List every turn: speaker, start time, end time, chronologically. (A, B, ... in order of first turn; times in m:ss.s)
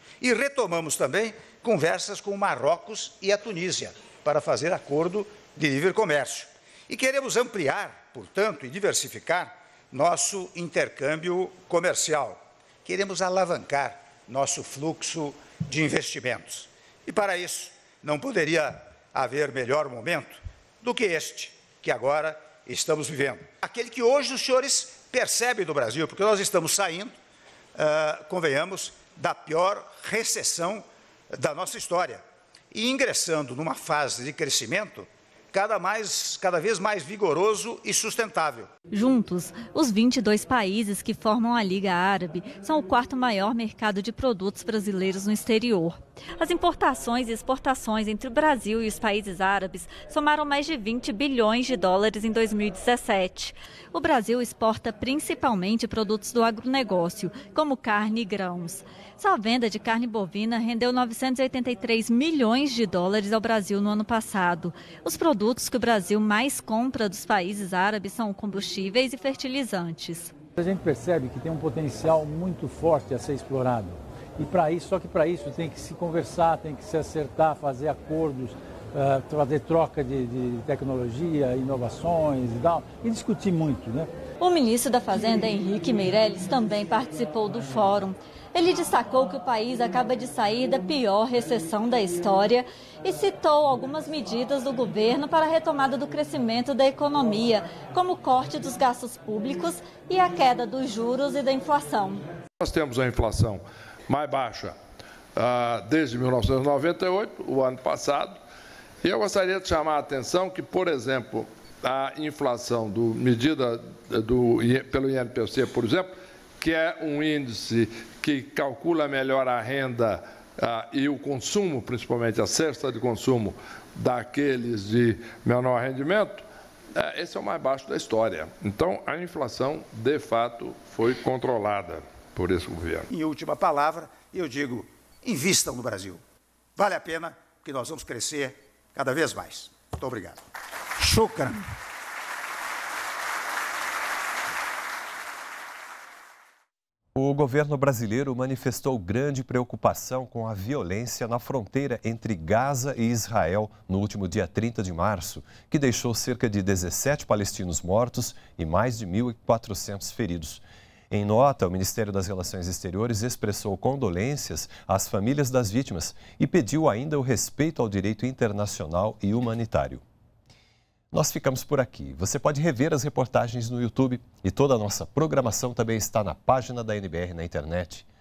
0:00.2-0:27.1 A
0:27.8-0:38.7 A
0:38.9-1:10.3 B
1:10.6-1:24.1 C
1:24.4-1:42.2 B
1:42.6-1:44.7 D
1:45.4-1:48.3 D
1:49.0-2:13.1 D
2:13.1-2:16.2 A
2:16.8-2:20.4 A
2:21.0-2:21.6 A
2:27.1-2:50.0 E
2:51.1-2:58.1 E